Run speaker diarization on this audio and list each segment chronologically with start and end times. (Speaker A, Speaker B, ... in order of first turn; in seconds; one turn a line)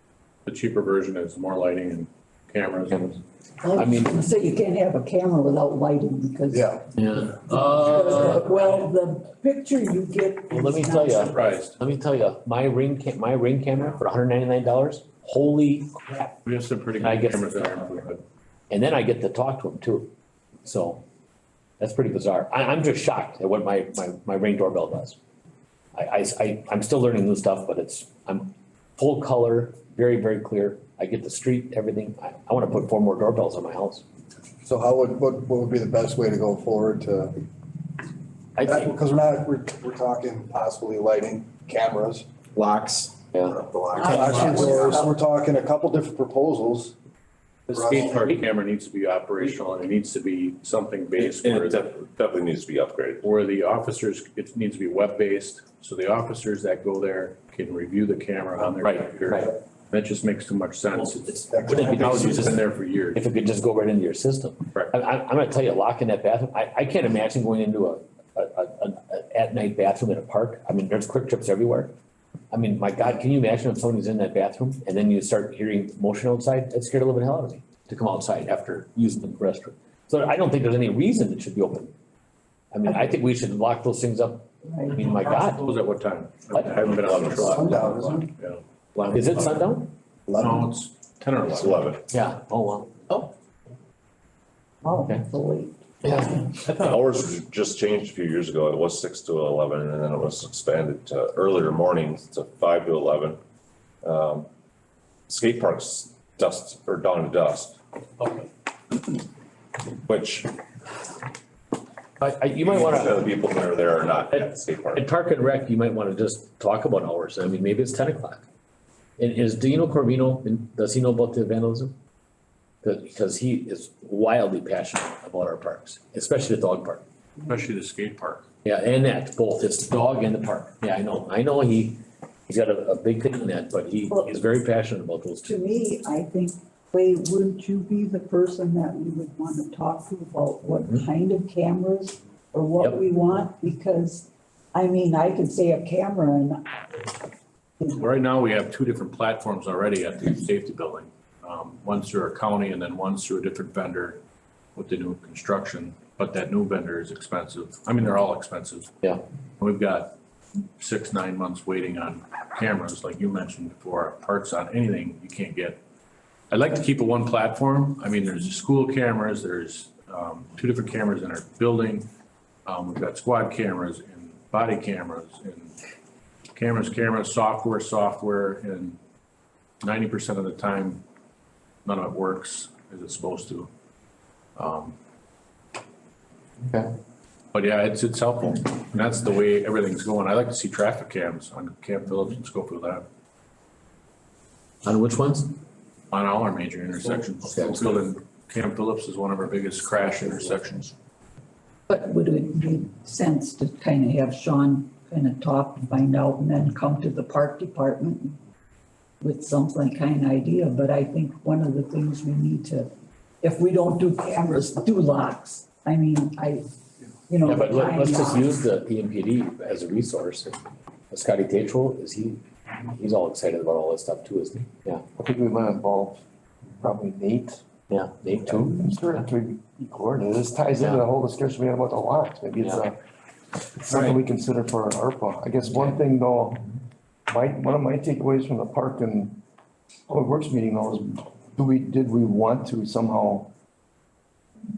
Speaker A: 0.5-3.1
Speaker B: 2.9-3.2
Speaker C: 3.6-6.9
Speaker B: 3.7-4.2
Speaker D: 6.5-6.8
Speaker B: 7.0-8.4
Speaker C: 7.5-11.5
Speaker B: 10.5-16.3
Speaker A: 11.3-11.8
Speaker A: 16.4-18.2
Speaker B: 17.0-18.1
Speaker B: 18.7-20.1
Speaker B: 20.6-21.0
Speaker B: 21.8-25.2
Speaker B: 26.0-34.0
Speaker D: 34.7-37.4
Speaker B: 38.6-38.9
Speaker D: 38.6-43.0
Speaker E: 42.5-44.4
Speaker B: 43.3-45.0
Speaker D: 44.0-46.9
Speaker C: 44.1-44.9
Speaker A: 47.7-51.9
Speaker D: 47.7-48.3
Speaker E: 51.2-53.3
Speaker A: 53.2-63.2
Speaker B: 58.8-59.5
Speaker B: 61.3-62.5
Speaker D: 61.5-62.5
Speaker B: 63.1-71.9
Speaker B: 72.5-81.9
Speaker B: 82.7-85.7
Speaker C: 84.7-85.0
Speaker A: 84.9-89.7
Speaker E: 86.7-87.5
Speaker B: 87.4-87.8
Speaker D: 87.5-88.3
Speaker B: 89.1-89.9
Speaker A: 90.3-92.0
Speaker E: 91.5-92.0
Speaker B: 92.1-93.3
Speaker C: 94.8-96.5
Speaker B: 96.0-96.9
Speaker E: 96.8-103.4
Speaker E: 104.0-104.5
Speaker E: 105.3-107.8
Speaker B: 108.2-108.5
Speaker E: 110.0-110.6
Speaker B: 112.2-113.4
Speaker E: 112.6-115.1
Speaker B: 114.0-118.5
Speaker B: 119.2-122.0
Speaker B: 122.8-127.0
Speaker A: 127.5-128.5
Speaker B: 128.6-135.6
Speaker C: 135.5-147.1
Speaker B: 140.7-141.1
Speaker A: 147.9-154.2
Speaker A: 154.8-160.2
Speaker A: 160.8-165.8
Speaker A: 166.5-172.1
Speaker A: 172.7-175.7
Speaker A: 176.6-179.0
Speaker A: 179.8-181.0
Speaker A: 181.8-183.7
Speaker A: 184.6-185.0
Speaker A: 187.5-193.1
Speaker B: 194.8-195.6
Speaker A: 196.1-200.9
Speaker B: 197.5-197.8
Speaker C: 201.9-208.4
Speaker C: 209.2-212.9
Speaker C: 213.4-216.6
Speaker C: 217.3-218.5
Speaker B: 217.4-220.6
Speaker B: 221.1-225.0
Speaker F: 225.2-226.2
Speaker F: 226.8-227.7
Speaker B: 227.9-229.2
Speaker F: 228.4-233.0
Speaker F: 233.7-236.8
Speaker F: 237.3-239.4
Speaker F: 240.1-243.5